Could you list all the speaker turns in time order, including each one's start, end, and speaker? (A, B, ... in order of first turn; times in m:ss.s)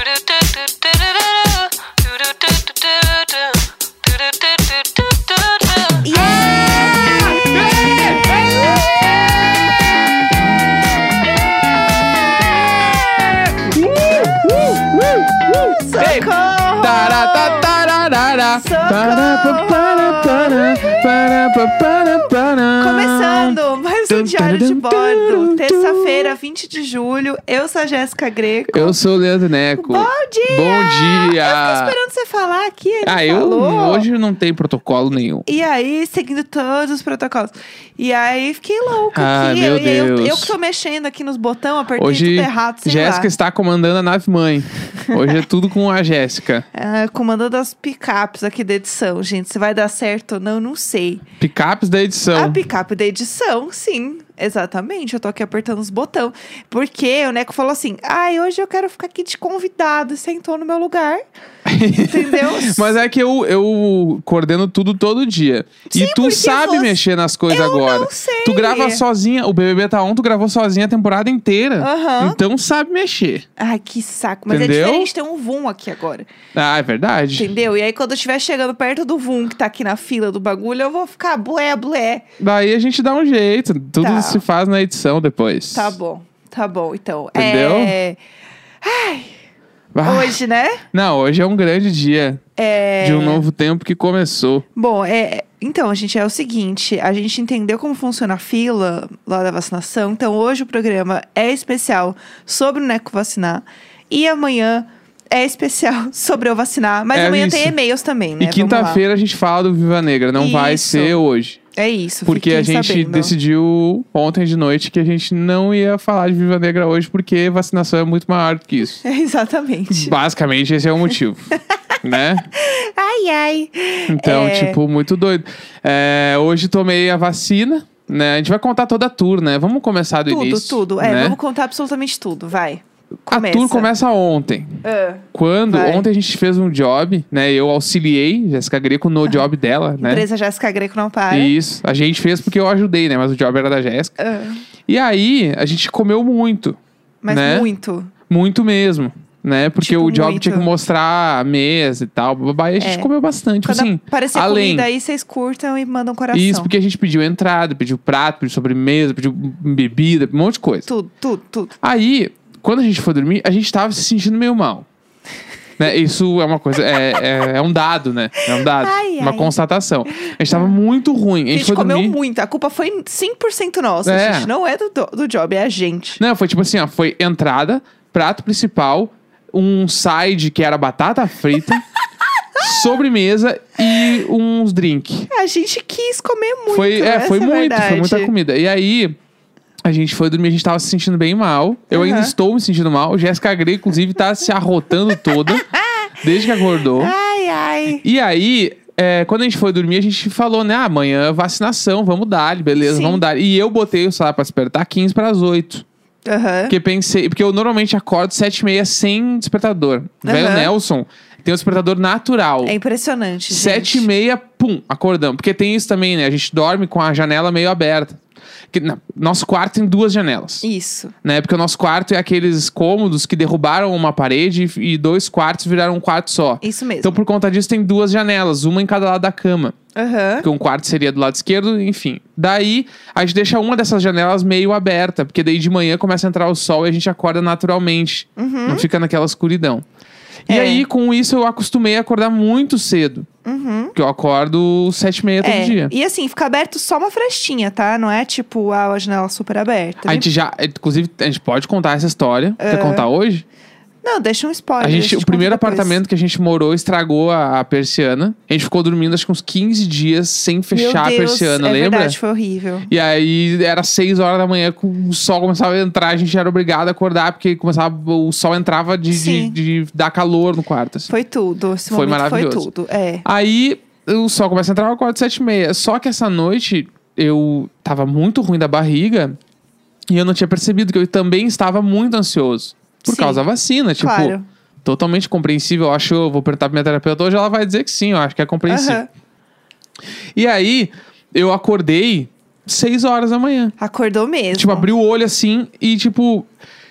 0:00.3-0:03.5 A
0:04.0-0:09.7 A
0:06.0-0:07.6 B
0:13.6-0:23.6 A
0:13.7-0:14.4 B
0:15.6-0:17.7 B
0:18.5-0:21.1 B
0:22.8-0:29.0 B
0:24.1-0:26.4 A
0:28.7-0:32.0 A
0:29.8-0:34.1 B
0:33.0-0:35.5 A
0:35.5-0:43.3 B
0:39.1-0:40.5 A
0:42.0-0:46.7 A
0:45.0-0:45.3 B
0:46.7-0:51.2 B
0:51.4-0:52.6 A
0:52.3-1:01.2 B
1:01.7-1:13.5 A
1:02.0-1:03.0 B
1:05.9-1:07.0 B
1:07.5-1:09.0 B
1:11.8-1:12.4 B
1:13.6-1:16.3 B
1:14.5-1:15.1 A
1:16.5-1:17.5 A
1:17.4-1:22.2 B
1:22.4-1:26.0 A
1:24.0-1:24.4 B
1:25.7-1:28.2 B
1:27.4-1:28.0 A
1:28.8-1:29.4 B
1:29.9-1:30.4 A
1:30.0-1:30.8 B
1:30.9-1:32.4 A
1:32.6-1:33.4 B
1:33.0-1:34.6 A
1:34.8-1:49.0 B
1:47.1-1:47.8 A
1:48.4-1:51.6 A
1:50.4-1:51.2 B
1:51.8-1:53.3 B
1:52.3-1:59.0 A
1:59.0-2:00.2 B
1:59.9-2:01.5 A
2:02.0-2:02.5 A
2:02.5-2:04.8 B
2:04.1-2:11.4 A
2:10.3-2:13.9 B
2:13.3-2:14.8 A
2:14.8-2:16.1 B
2:15.3-2:20.2 A
2:20.0-2:21.5 B
2:21.3-2:24.2 A
2:24.2-2:24.6 B
2:24.9-2:26.8 A
2:27.2-2:28.1 B
2:27.3-2:27.7 A
2:28.3-2:34.9 A
2:29.8-2:30.7 B
2:32.8-2:33.1 B
2:33.6-2:36.7 B
2:36.3-2:40.9 A
2:40.9-2:41.8 B
2:41.8-2:44.9 A
2:45.8-2:52.2 A
2:48.4-2:49.5 B
2:50.1-2:50.7 B
2:51.5-2:56.2 B
2:54.0-2:54.5 A
2:56.2-3:01.8 A
3:02.6-3:05.3 A
3:05.3-3:08.3 B
3:06.7-3:09.2 A
3:09.8-3:15.7 A
3:11.9-3:12.3 B
3:15.4-3:16.2 B
3:16.2-3:17.1 A
3:17.0-3:18.0 B
3:18.0-3:25.8 A
3:22.8-3:23.2 B
3:26.3-3:26.8 B
3:26.7-3:32.7 A
3:30.2-3:30.7 B
3:32.6-3:34.1 B
3:33.5-3:38.2 A
3:38.7-3:40.6 A
3:40.6-3:41.2 B
3:41.2-3:49.8 A
3:46.6-3:47.1 B
3:50.0-3:50.5 B
3:50.4-3:59.8 A
3:58.4-3:58.9 B
4:00.5-4:00.8 B
4:00.5-4:03.3 A
4:03.4-4:04.0 B
4:04.0-4:05.9 A
4:05.4-4:10.3 B
4:10.0-4:13.4 A
4:12.6-4:13.1 B
4:14.0-4:16.0 B
4:14.8-4:22.2 A
4:20.7-4:22.9 B
4:22.9-4:31.1 A
4:29.1-4:29.6 B
4:31.1-4:33.2 B
4:31.9-4:32.7 A
4:33.2-4:39.4 A
4:40.1-4:49.0 A
4:43.1-4:43.4 B
4:44.0-4:44.5 B
4:48.7-4:49.1 B
4:50.4-4:53.7 A
4:53.8-4:54.9 B
4:54.6-4:56.5 A